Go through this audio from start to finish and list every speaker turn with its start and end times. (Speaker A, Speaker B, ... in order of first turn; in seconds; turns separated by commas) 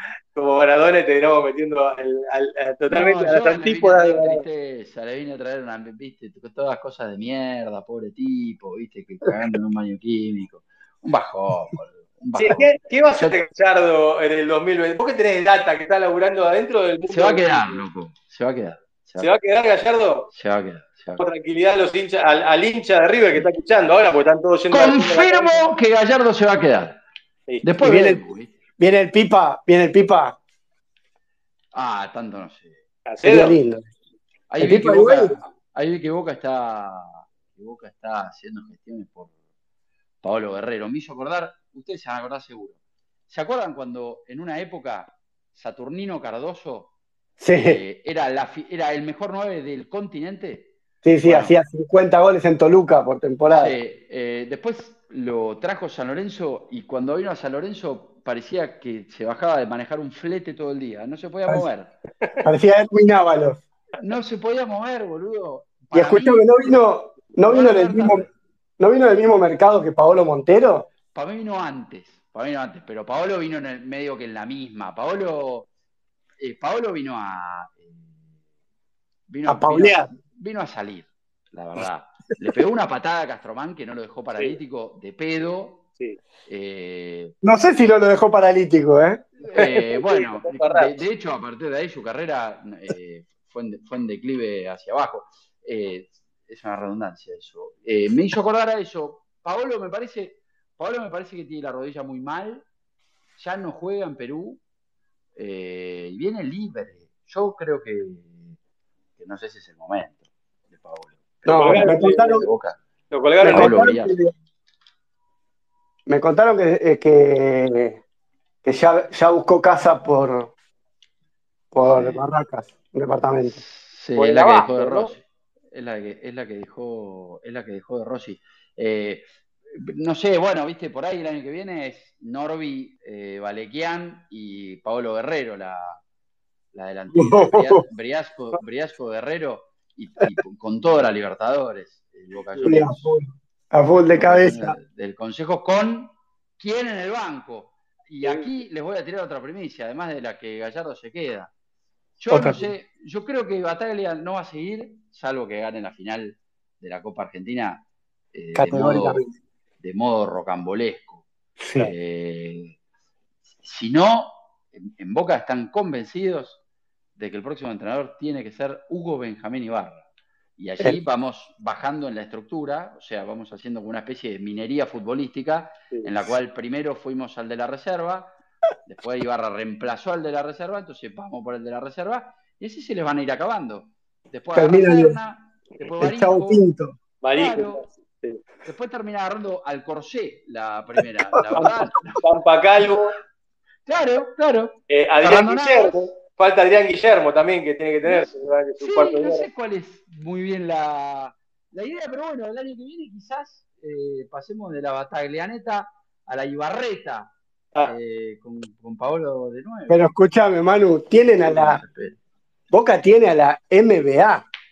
Speaker A: 0.3-4.4, Speaker B: 2.9-13.4, Speaker A: 12.3-17.8, Speaker B: 17.1-19.3, Speaker A: 19.2-20.3, Speaker B: 20.3-21.2, Speaker A: 21.2-25.6, Speaker B: 24.7-27.0, Speaker B: 27.6-28.5, Speaker C: 27.8-28.2, Speaker C: 28.8-30.4, Speaker B: 31.7-32.8, Speaker A: 33.0-33.5, Speaker C: 33.2-33.9, Speaker B: 34.5-39.3, Speaker C: 34.6-35.4, Speaker B: 40.2-46.9, Speaker C: 47.4-47.8, Speaker B: 47.6-50.7, Speaker C: 51.0-53.8, Speaker B: 51.2-51.6, Speaker B: 53.5-61.9, Speaker C: 62.4-63.6, Speaker B: 64.0-66.7, Speaker C: 65.9-68.2, Speaker B: 67.3-68.3, Speaker C: 68.8-70.9, Speaker B: 71.1-75.7, Speaker B: 76.4-78.2, Speaker B: 79.3-85.8, Speaker C: 79.5-80.1, Speaker B: 86.4-87.3, Speaker C: 87.4-89.7, Speaker B: 89.5-102.7, Speaker A: 89.5-90.9, Speaker B: 103.4-104.6, Speaker B: 105.3-108.6, Speaker B: 109.2-112.8, Speaker C: 111.5-112.5, Speaker A: 111.5-112.5, Speaker A: 113.1-113.9, Speaker B: 113.4-114.2, Speaker C: 113.4-114.3, Speaker C: 116.0-118.0, Speaker C: 118.6-120.5, Speaker C: 121.7-123.6, Speaker B: 121.8-122.3, Speaker B: 123.4-136.0, Speaker A: 124.2-125.1, Speaker B: 136.7-143.1, Speaker C: 137.1-137.8, Speaker C: 142.6-144.8, Speaker B: 144.1-151.5, Speaker B: 152.2-159.2, Speaker C: 152.3-152.7, Speaker C: 158.5-159.3, Speaker B: 159.8-161.2, Speaker C: 161.6-161.9, Speaker B: 161.8-162.8, Speaker B: 163.6-166.6, Speaker B: 167.2-170.1, Speaker B: 170.6-186.6, Speaker C: 184.5-185.2, Speaker C: 186.0-187.0, Speaker A: 187.2-188.4, Speaker B: 187.3-187.8, Speaker B: 188.6-192.2, Speaker C: 191.3-191.6, Speaker A: 191.6-193.1, Speaker B: 193.8-196.1, Speaker A: 194.9-199.5, Speaker B: 198.0-210.1, Speaker C: 209.9-211.8, Speaker B: 211.4-212.2, Speaker C: 212.7-214.4